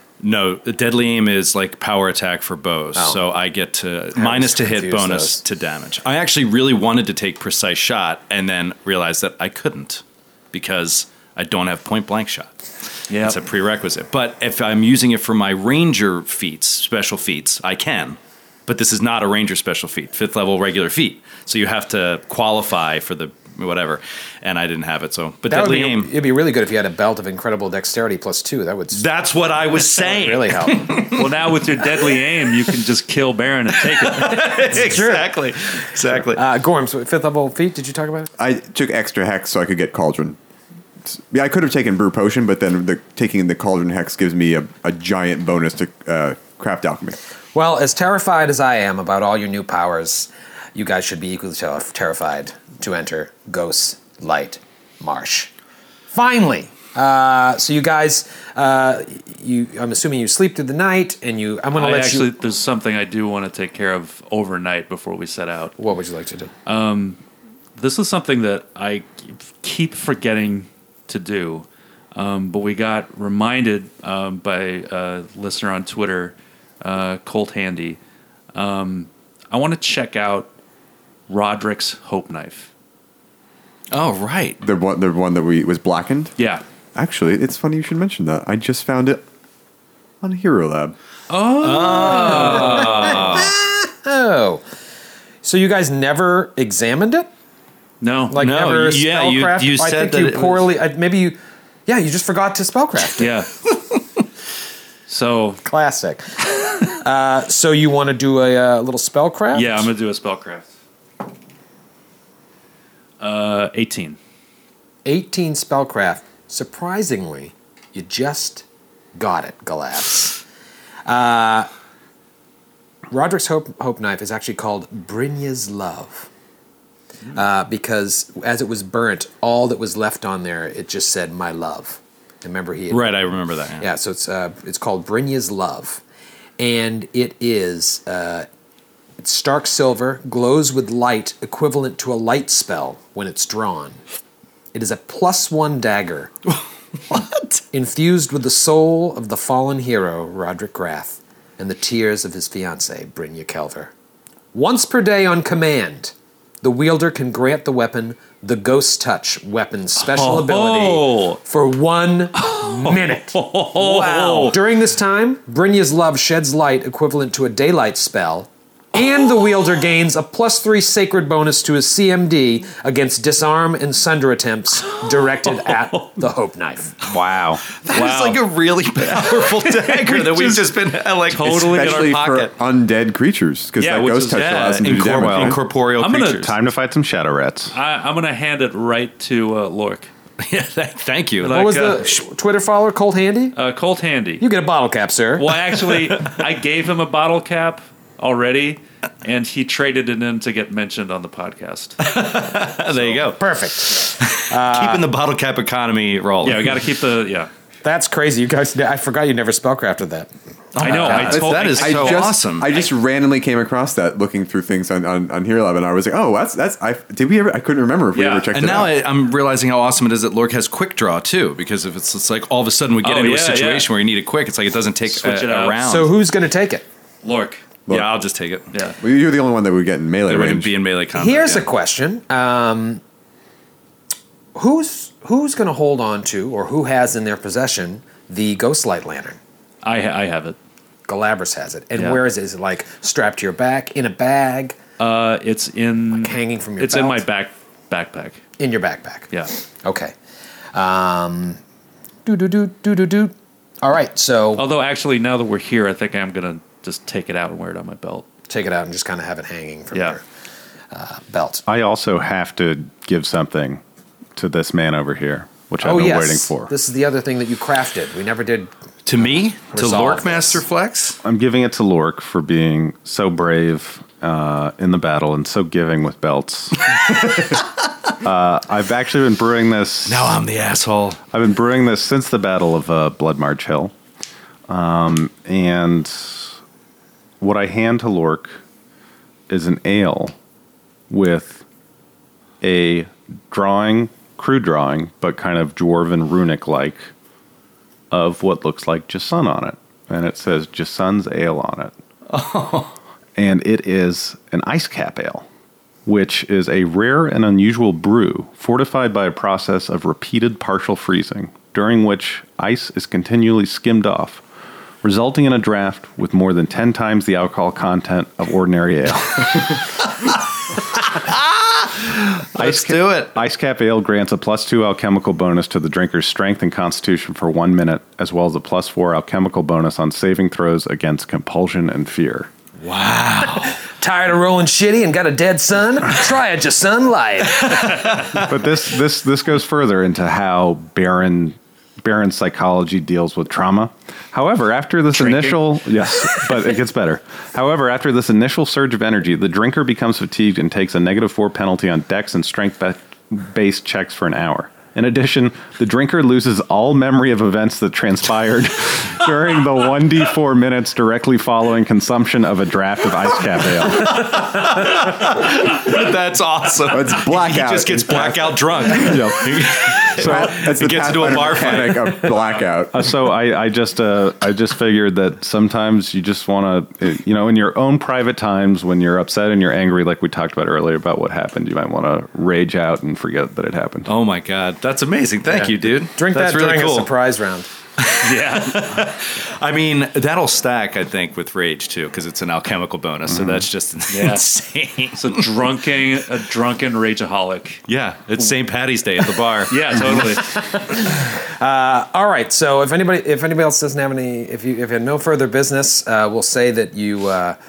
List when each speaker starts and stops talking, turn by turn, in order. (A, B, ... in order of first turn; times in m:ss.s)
0:00.2-0:12.5 A
0:03.0-0:03.2 B
0:04.2-0:05.4 B
0:13.1-0:13.4 C
0:13.1-0:26.1 A
0:25.5-0:29.0 B
0:28.9-0:31.3 A
0:29.8-0:31.0 B
0:31.1-0:34.5 C
0:34.0-0:36.4 A
0:34.3-0:35.4 B
0:36.3-0:38.3 B
0:38.4-0:40.4 D
0:41.1-0:47.2 D
0:47.5-0:55.5 B
0:56.1-1:02.3 B
1:01.7-1:05.8 C
1:05.8-1:06.5 B
1:06.6-1:07.2 C
1:07.8-1:18.0 C
1:18.5-1:20.5 C
1:21.3-1:22.7 C
1:23.9-1:24.6 A
1:24.6-1:26.3 D
1:26.4-1:26.6 C
1:27.0-1:29.2 D
1:30.2-1:30.9 D
1:31.3-1:33.5 C
1:31.6-1:33.5 A
1:32.0-1:34.6 B
1:35.4-1:37.3 B
1:38.0-1:38.4 C
1:38.3-1:43.3 B
1:38.4-1:40.7 A
1:43.2-1:43.5 C
1:45.1-1:45.6 C
1:45.6-1:49.9 B
1:49.5-1:50.7 C
1:53.2-1:54.2 C
1:55.0-1:58.6 B
1:59.1-2:00.4 B
2:01.0-2:01.7 B
2:03.1-2:06.3 B
2:07.3-2:16.0 B
2:12.9-2:13.8 A
2:16.6-2:18.5 B
2:19.2-2:24.0 B
2:24.7-2:26.3 B
2:27.1-2:27.6 A
2:27.7-2:33.9 B
2:34.5-2:57.0 B
2:40.0-2:41.4 C
2:42.4-2:44.6 C
2:57.1-2:57.6 E
2:57.8-3:02.5 A
2:57.9-2:58.4 C
2:59.1-3:00.7 C
3:01.3-3:02.3 C
3:01.5-3:05.6 D
3:03.8-3:04.8 C
3:04.3-3:06.5 A
3:05.1-3:05.6 E
3:06.0-3:06.5 C
3:06.2-3:07.8 E
3:07.7-3:10.1 C
3:10.4-3:11.6 A
3:11.4-3:12.1 C
3:11.5-3:13.6 B
3:13.5-3:14.4 C
3:14.4-3:15.9 B
3:15.4-3:22.0 C
3:22.0-3:26.7 A
3:23.4-3:25.1 B
3:26.4-3:27.5 C
3:27.8-3:30.3 B
3:30.7-3:32.7 A
3:30.8-3:32.3 C
3:30.9-3:31.2 B
3:31.0-3:38.9 D
3:38.1-3:38.5 C
3:38.5-3:46.1 A
3:43.0-3:43.9 C
3:45.1-3:45.8 C
3:45.8-3:46.8 B
3:47.2-3:47.6 C
3:47.9-3:48.7 A
3:48.7-3:49.0 C
3:49.0-3:50.7 D
3:50.3-3:51.7 A
3:51.1-3:53.0 B
3:54.5-3:59.4 B
3:59.8-4:00.6 C
4:01.1-4:04.8 B
4:05.0-4:08.4 C
4:06.1-4:07.2 B
4:08.6-4:09.3 B
4:09.8-4:10.1 B
4:10.7-4:11.6 B
4:12.2-4:14.6 B
4:14.6-4:18.2 C
4:18.5-4:20.2 B
4:19.9-4:20.2 C
4:20.9-4:21.6 B
4:21.7-4:23.8 E
4:24.4-4:26.7 E
4:25.8-4:28.7 B
4:29.0-4:31.2 A
4:29.7-4:30.6 B
4:31.2-4:36.8 E
4:38.2-4:40.4 E
4:40.0-4:41.2 A
4:41.3-4:43.9 E
4:44.7-4:46.5 E
4:47.4-4:48.6 E
4:49.5-4:50.3 E
4:51.1-4:51.6 E
4:52.6-4:57.1 E
4:58.1-5:01.9 E
5:02.3-5:02.9 A
5:03.4-5:05.4 E
5:06.0-5:14.4 E
5:15.0-5:19.9 E
5:21.0-5:23.4 A
5:22.5-5:32.5 E
5:32.8-5:33.8 A
5:33.4-5:38.4 B
5:38.4-6:04.2 E
5:45.1-5:45.6 C
6:03.9-6:12.5 A
6:06.9-6:08.6 D
6:09.0-6:09.5 E
6:10.2-6:10.6 E
6:10.2-6:13.0 D
6:12.9-6:24.1 E
6:24.0-6:27.1 A
6:25.5-6:27.7 B
6:28.0-6:35.5 A
6:28.2-6:29.1 C
6:33.3-6:33.6 E
6:34.1-6:34.4 C
6:35.2-6:37.8 C
6:37.9-6:40.2 A
6:39.7-6:40.6 C
6:40.3-6:47.6 B